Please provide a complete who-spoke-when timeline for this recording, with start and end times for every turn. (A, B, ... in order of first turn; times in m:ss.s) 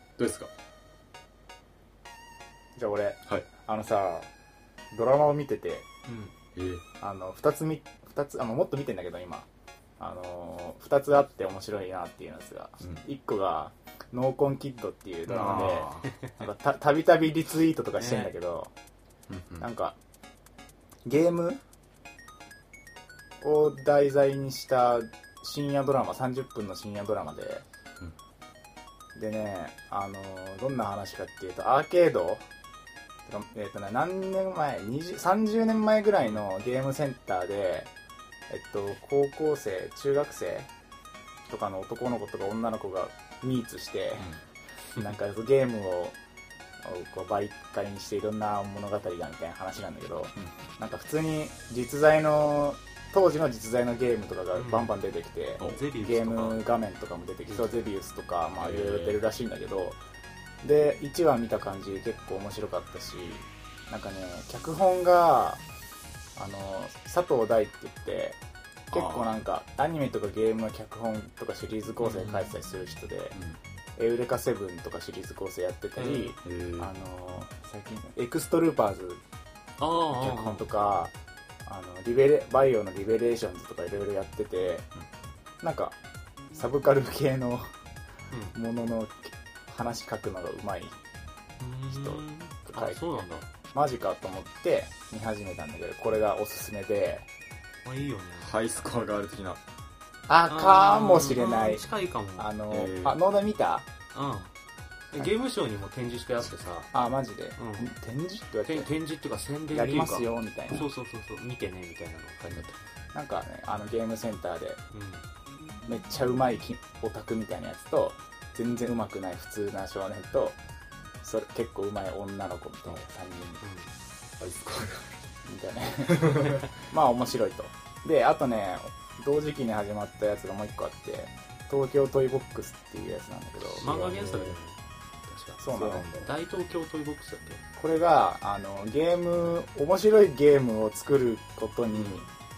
0:00.2-0:00.5 A
0:02.8-0:04.3 B
0:04.9-0:05.9 B
0:06.1-0:06.3 C
0:06.6-0:06.8 A
0:07.0-0:09.5 B
0:10.0-0:18.7 B
0:15.3-0:16.1 A
0:15.5-0:16.3 C
0:18.0-0:18.3 C
0:19.3-0:19.7 A
0:19.6-0:20.0 B
0:21.0-0:21.6 B
0:23.4-0:27.6 B
0:29.2-0:32.4 B
0:33.3-0:37.9 B
0:38.5-0:40.7 B
0:41.5-0:44.3 B
0:45.0-0:46.2 B
0:46.8-1:00.0 B
0:54.5-0:54.9 C
0:55.6-0:56.6 C
0:57.5-0:57.8 A
0:58.6-0:59.2 A
1:00.6-1:05.6 B
1:06.4-1:08.4 B
1:08.9-1:09.3 A
1:08.9-1:13.4 B
1:12.0-1:12.5 C
1:14.0-1:19.2 B
1:16.0-1:16.4 C
1:16.4-1:16.9 A
1:19.8-1:20.6 C
1:20.1-1:21.1 B
1:21.6-1:24.9 B
1:25.6-1:26.0 B
1:26.5-1:27.7 B
1:28.5-1:31.0 B
1:31.6-1:33.5 C
1:31.9-1:33.0 B
1:33.7-1:37.3 B
1:37.8-1:38.5 C
1:38.4-1:39.6 A
1:40.3-1:41.9 B
1:40.5-1:42.5 C
1:42.4-1:43.9 B
1:42.7-1:43.2 A
1:44.1-1:44.5 C
1:45.1-1:46.9 C
1:46.9-1:48.9 B
1:47.6-1:47.9 C
1:48.7-1:52.8 C
1:49.7-1:50.9 B
1:53.1-1:54.8 B
1:54.9-1:55.2 C
1:55.9-2:00.6 B
2:01.2-2:03.6 B
2:03.6-2:03.9 C
2:04.4-2:05.2 A
2:05.4-2:13.9 B
2:06.1-2:06.7 A
2:13.7-2:14.6 A
2:13.8-2:17.6 C
2:15.6-2:16.1 B
2:15.7-2:16.3 A
2:17.8-2:22.3 B